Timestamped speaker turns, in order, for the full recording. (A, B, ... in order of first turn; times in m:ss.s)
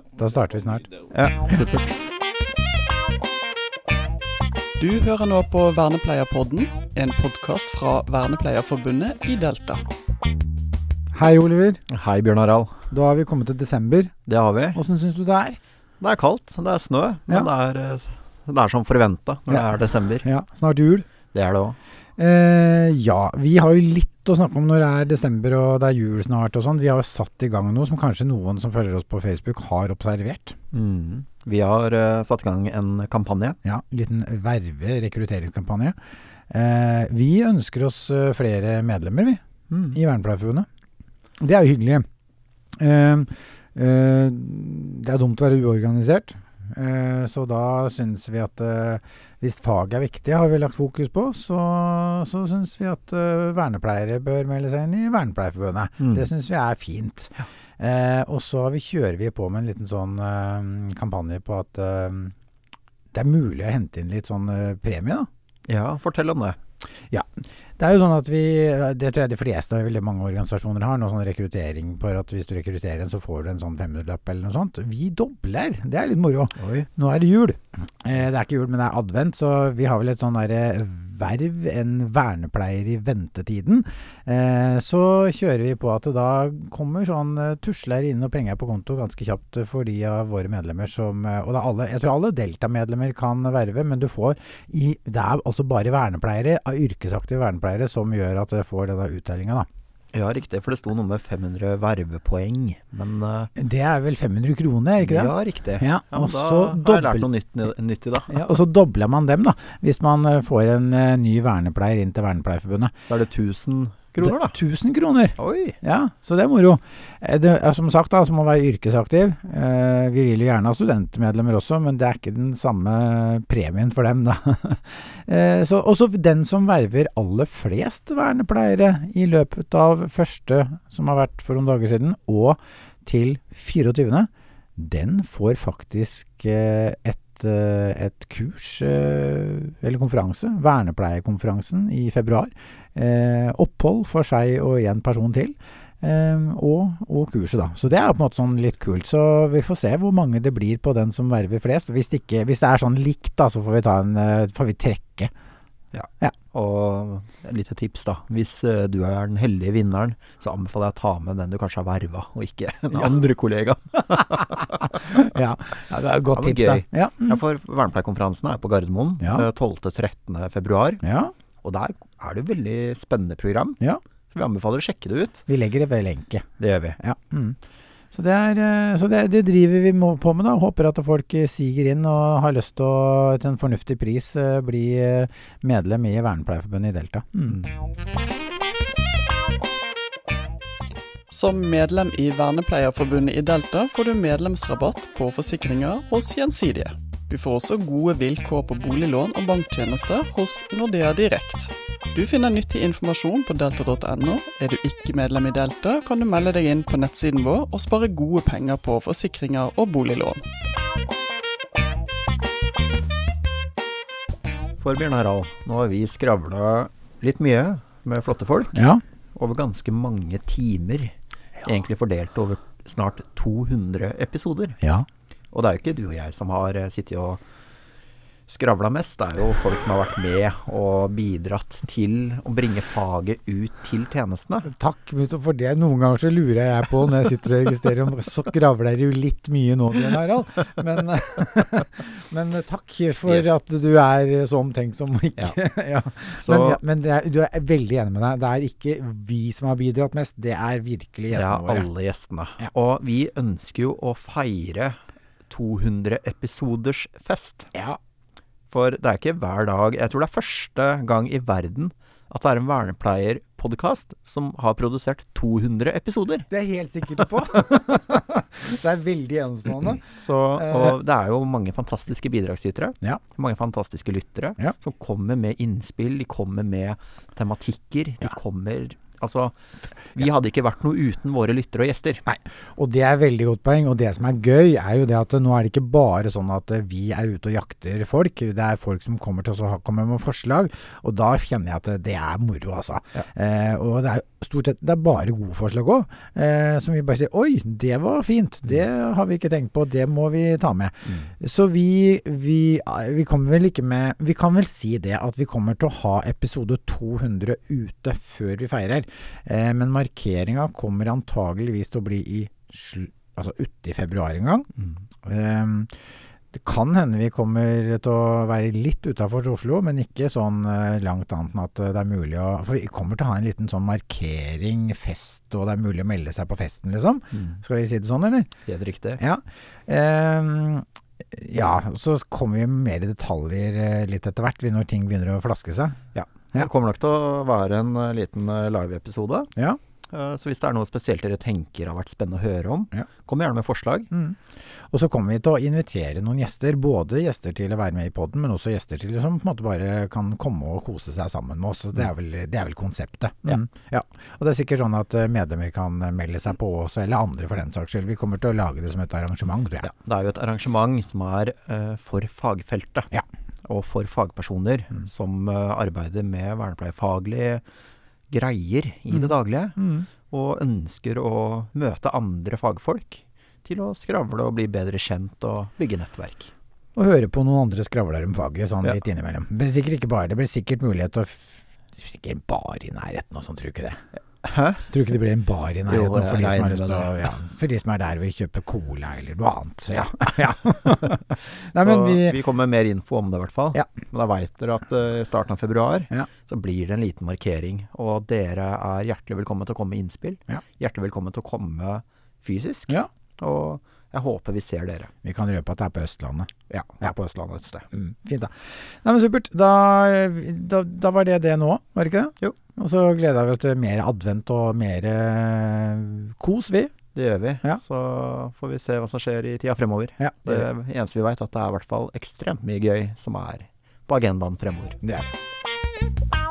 0:00.2-0:00.9 A
0:01.1-0:01.8 B
0:04.8-0:09.8 C
0:11.1-0:11.8 A
0:11.9-0:12.8 B
0:12.9-0:14.1 A
0:14.3-0:14.8 B
0:14.7-0:15.6 A
0:16.0-0:20.2 B
0:20.2-0:21.1 A
0:21.3-0:21.8 B
0:22.2-0:30.5 A
0:30.7-0:33.6 B
0:33.6-0:36.0 A
0:36.5-0:40.7 A
0:39.7-0:40.0 B
0:41.4-0:42.0 A
0:42.8-1:02.3 A
0:56.0-0:56.3 B
1:03.1-1:05.3 A
1:05.7-1:06.6 B
1:07.1-1:39.7 A
1:16.6-1:16.9 B
1:40.1-1:43.5 B
1:43.6-1:47.3 A
1:45.0-1:48.3 B
1:48.3-1:52.9 A
1:53.1-1:54.6 B
1:54.2-2:35.3 A
1:55.4-1:55.8 B
2:35.9-2:44.8 B
2:44.9-2:47.4 A
2:46.3-2:51.0 B
2:49.2-2:49.5 A
2:51.0-2:51.3 A
2:51.6-2:53.8 B
2:54.3-2:55.4 B
2:55.5-2:57.6 A
2:56.6-2:57.0 B
2:58.1-3:07.6 A
3:11.3-3:30.4 C
3:34.8-3:38.8 B
3:38.7-3:39.0 A
3:39.3-3:41.1 B
3:41.6-3:44.8 B
3:44.8-3:45.0 A
3:45.5-3:47.4 B
3:48.5-3:54.7 B
3:54.6-4:11.9 A
4:03.3-4:03.5 B
4:06.4-4:06.8 B
4:11.3-4:15.0 B
4:15.5-4:17.7 B
4:18.7-4:26.5 B
4:26.5-4:30.0 A
4:30.2-4:39.6 B
4:30.6-4:31.0 A
4:40.1-4:42.2 B
4:42.3-5:14.7 A
5:15.2-5:15.9 A
5:16.5-5:28.5 A
5:28.6-5:29.2 B
5:29.2-5:36.0 A
5:36.1-5:39.5 B
5:40.1-5:44.1 B
5:44.1-5:44.4 A
5:44.9-5:59.9 A
5:59.8-6:03.1 B
6:03.6-6:07.6 B
6:08.3-6:16.5 B
6:09.1-6:10.1 A
6:17.0-6:24.0 A
6:24.4-6:24.9 B
6:24.9-6:32.4 A
6:25.9-6:27.3 B
6:31.7-6:45.1 B
6:45.2-6:46.5 A
6:46.7-6:47.8 B
6:47.9-6:48.5 A
6:49.0-6:56.9 A
6:57.1-7:05.0 B
7:00.2-7:00.7 A
7:05.0-7:05.3 A